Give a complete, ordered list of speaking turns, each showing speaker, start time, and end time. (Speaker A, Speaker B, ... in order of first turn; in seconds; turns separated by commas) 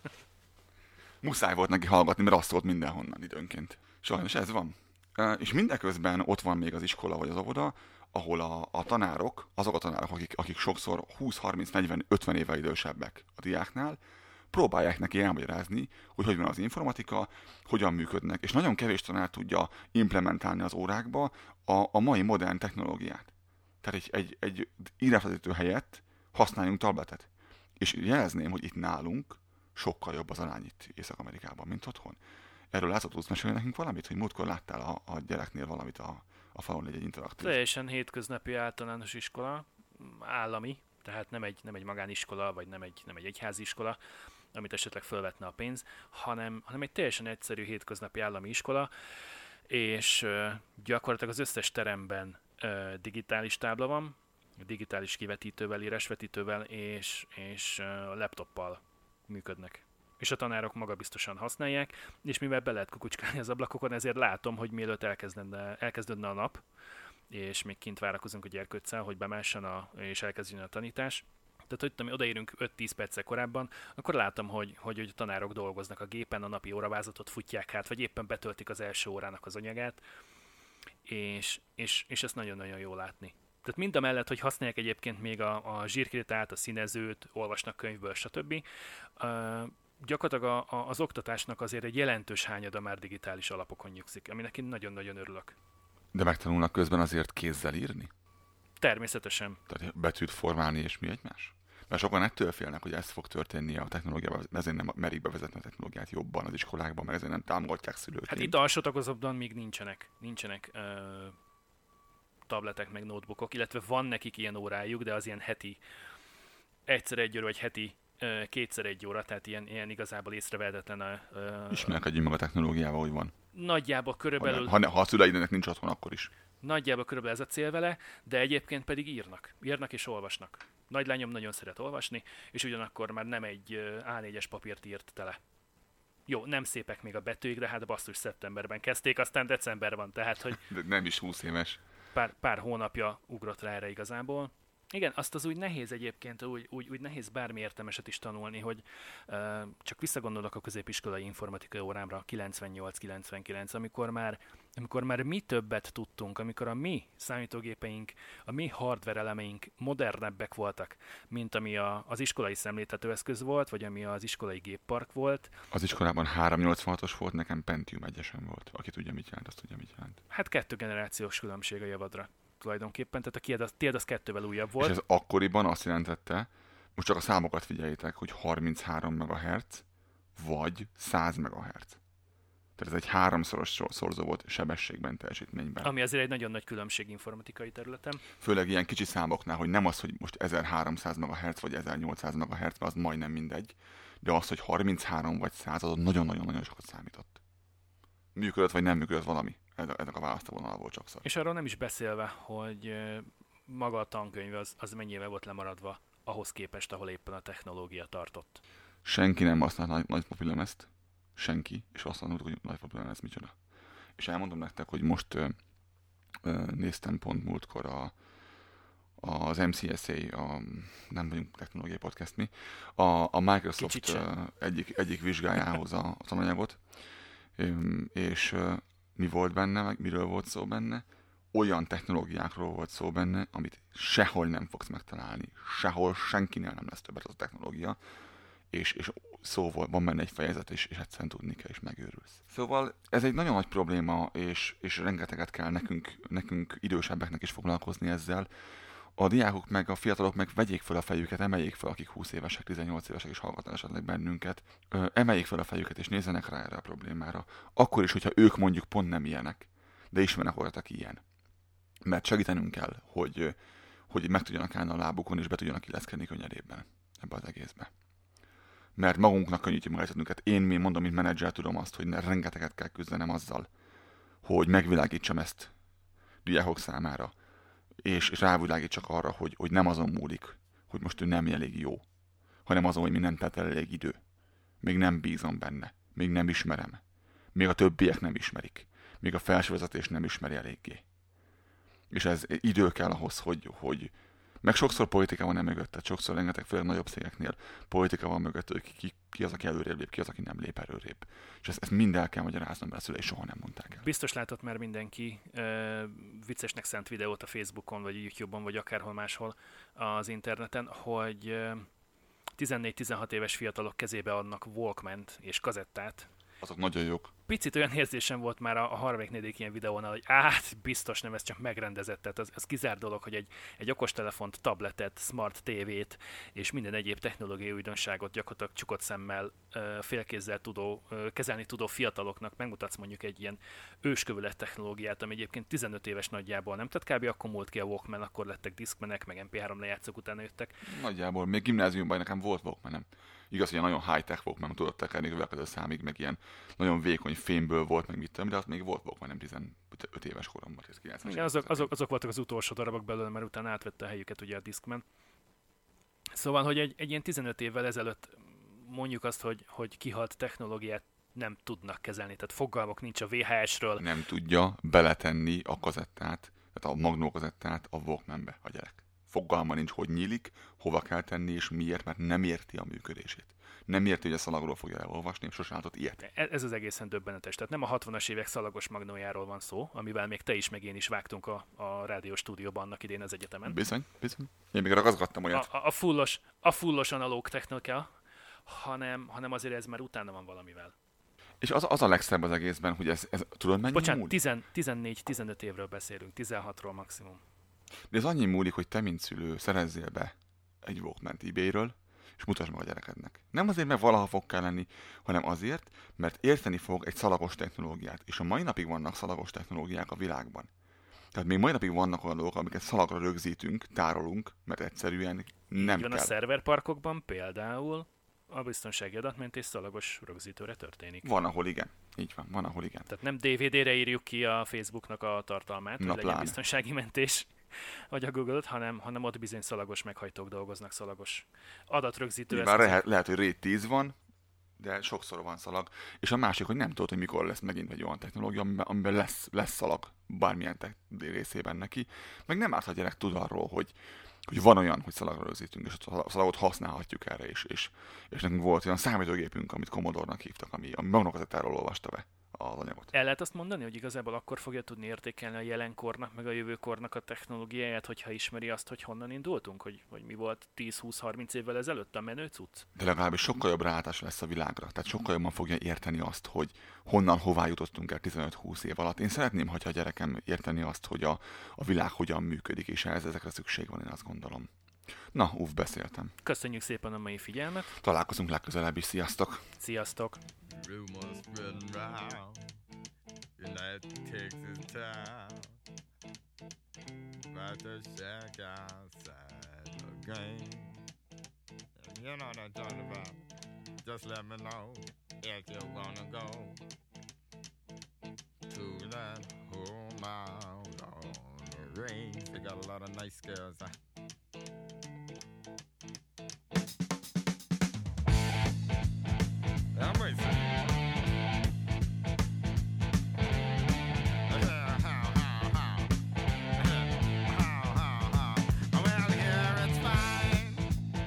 Speaker A: 1.2-14.0, Speaker A: 14.5-23.3, Speaker A: 23.8-32.2, Speaker A: 32.7-37.6, Speaker B: 37.4-44.0, Speaker B: 44.5-48.9, Speaker B: 49.7-66.6, Speaker B: 67.3-80.0, Speaker B: 81.0-88.6, Speaker B: 89.2-95.5, Speaker A: 96.1-98.1, Speaker B: 98.8-99.6, Speaker A: 99.7-108.6, Speaker B: 108.3-111.3, Speaker B: 112.5-115.8, Speaker B: 116.9-122.0, Speaker A: 121.7-123.3, Speaker B: 123.5-124.8, Speaker A: 124.4-126.3, Speaker B: 126.6-135.4, Speaker B: 136.3-140.6, Speaker A: 140.5-141.8, Speaker B: 142.1-165.5, Speaker A: 165.7-170.2, Speaker B: 170.3-175.0, Speaker A: 174.8-179.8, Speaker A: 180.3-182.0, Speaker A: 182.8-185.9, Speaker B: 185.8-188.2, Speaker A: 188.3-197.4, Speaker A: 198.3-201.2, Speaker B: 201.2-208.6, Speaker A: 209.0-213.5, Speaker A: 214.2-215.6, Speaker A: 216.4-218.1, Speaker A: 219.2-226.8, Speaker B: 223.8-224.3, Speaker A: 227.6-238.0, Speaker A: 238.7-248.5, Speaker A: 249.2-261.2, Speaker A: 262.0-263.6, Speaker A: 264.1-267.9, Speaker A: 268.9-273.7, Speaker A: 274.4-275.7, Speaker A: 276.4-277.3, Speaker A: 278.0-282.0, Speaker A: 282.6-284.2, Speaker A: 284.8-287.0, Speaker A: 287.5-291.0, Speaker A: 292.1-304.0, Speaker B: 304.0-311.9, Speaker B: 312.6-316.3, Speaker A: 316.6-317.3, Speaker B: 317.5-340.8, Speaker A: 340.8-351.9, Speaker B: 351.2-355.0, Speaker B: 356.3-364.1, Speaker A: 364.0-376.2, Speaker B: 376.2-383.8, Speaker A: 383.6-385.7, Speaker B: 385.5-388.1, Speaker B: 388.6-390.9, Speaker A: 391.6-394.4, Speaker B: 393.9-397.4, Speaker A: 398.1-410.7, Speaker A: 411.3-416.3, Speaker B: 415.8-421.3, Speaker A: 421.2-423.1, Speaker B: 423.1-433.0, Speaker A: 426.0-426.6, Speaker A: 432.5-434.1, Speaker A: 434.8-453.1, Speaker B: 453.1-462.9, Speaker A: 462.9-474.7, Speaker A: 475.3-476.3, Speaker B: 476.4-477.9, Speaker A: 477.9-479.6, Speaker B: 479.8-480.4, Speaker C: 480.7-482.6, Speaker C: 483.6-485.7, Speaker C: 487.5-491.0, Speaker C: 492.0-493.4, Speaker C: 494.0-496.8, Speaker C: 498.7-503.9, Speaker C: 509.9-510.8, Speaker C: 514.5-516.1, Speaker C: 516.8-520.9